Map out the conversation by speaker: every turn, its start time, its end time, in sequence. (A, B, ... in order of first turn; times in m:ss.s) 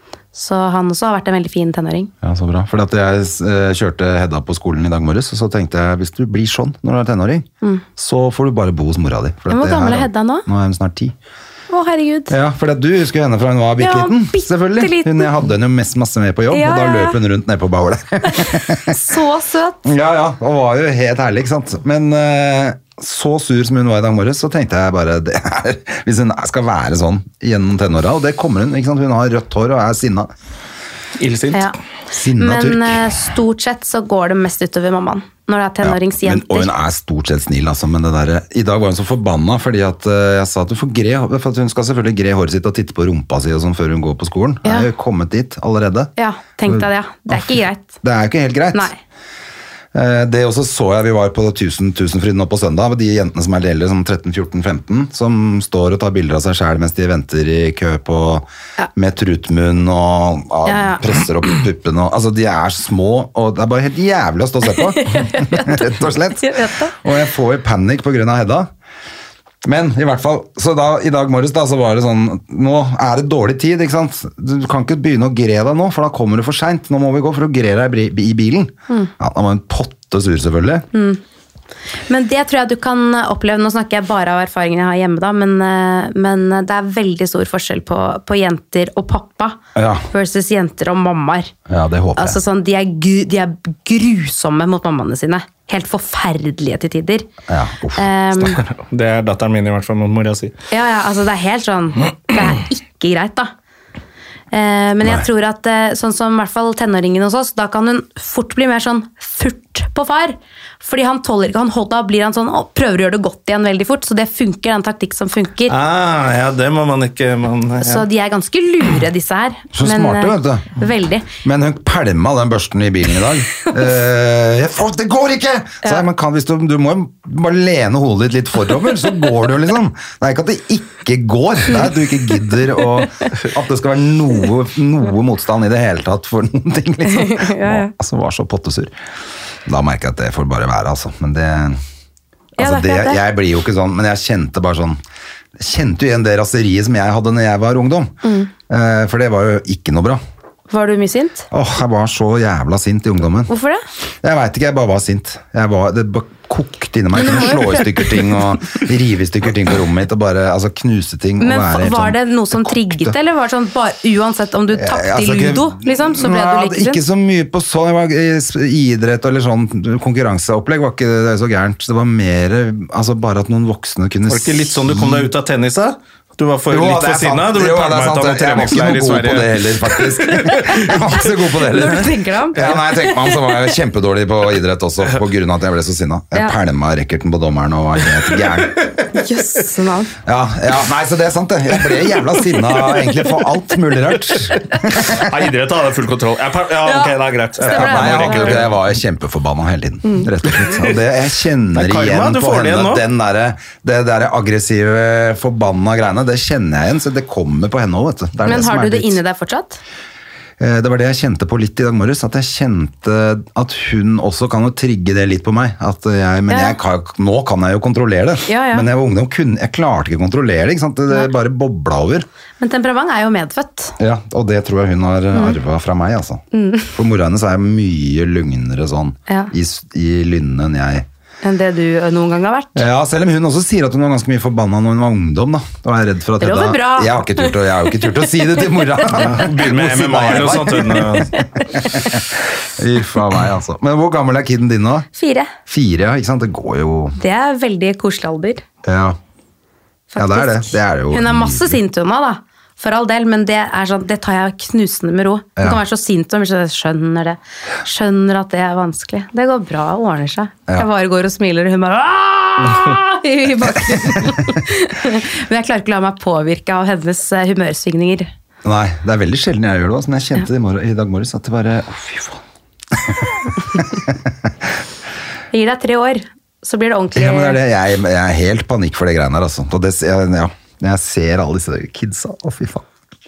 0:00.3-0:02.1 A
0:02.2-0:11.2 B
0:09.5-0:10.5 A
0:11.7-0:12.3 A
0:12.3-0:19.0 B
0:13.8-0:15.4 A
0:16.5-0:17.2 A
0:18.3-0:19.8 A
0:19.8-0:30.3 B
0:31.2-0:31.7 C
0:32.1-0:33.1 B
0:32.4-0:36.7 A
0:35.8-0:46.1 B
0:46.2-0:47.9 A
0:46.7-0:48.9 B
0:49.9-1:08.7 B
1:00.7-1:01.0 A
1:04.8-1:07.0 A
1:09.6-1:20.9 B
1:20.9-1:21.2 A
1:22.1-1:29.6 A
1:29.8-1:30.1 B
1:30.1-1:31.5 A
1:31.7-1:32.4 B
1:32.2-1:37.3 A
1:37.5-1:38.1 B
1:38.0-1:38.6 A
1:38.4-1:40.5 C
1:40.7-1:43.5 A
1:44.5-1:55.8 A
1:55.7-1:58.1 C
1:57.8-2:01.3 A
1:59.7-2:00.7 B
2:01.4-2:18.9 B
2:13.0-2:13.3 A
2:17.1-2:17.9 A
2:19.7-2:21.8 B
2:22.6-2:23.2 A
2:22.6-2:25.0 B
2:25.6-2:28.2 B
2:28.2-2:28.5 A
2:28.7-2:30.2 B
2:30.7-2:31.5 A
2:31.5-2:33.5 B
2:33.5-2:33.8 A
2:34.2-2:43.2 B
2:37.1-2:38.2 A
2:41.4-2:47.0 A
2:44.7-2:55.3 B
2:54.3-3:00.8 C
2:56.7-3:08.8 B
3:00.9-3:02.7 A
3:09.1-3:10.1 A
3:10.2-3:15.3 B
3:15.0-3:18.8 C
3:16.8-3:18.6 A
3:17.7-3:29.2 B
3:21.8-3:23.0 C
3:28.4-3:29.8 A
3:30.6-3:42.3 B
3:36.5-3:36.8 A
3:38.5-3:38.9 A
3:42.6-3:44.0 A
3:44.0-3:51.1 B
3:46.5-3:46.9 A
3:51.4-3:52.8 A
3:52.8-4:05.1 B
3:56.4-3:58.2 A
3:59.2-4:01.3 C
4:01.3-4:02.1 A
4:05.1-4:05.5 A
4:05.7-4:07.2 B
4:07.2-4:08.6 A
4:08.8-4:09.2 B
4:10.1-4:28.3 A
4:10.2-4:11.8 B
4:28.6-4:34.7 B
4:35.5-4:37.6 A
4:37.1-4:42.8 B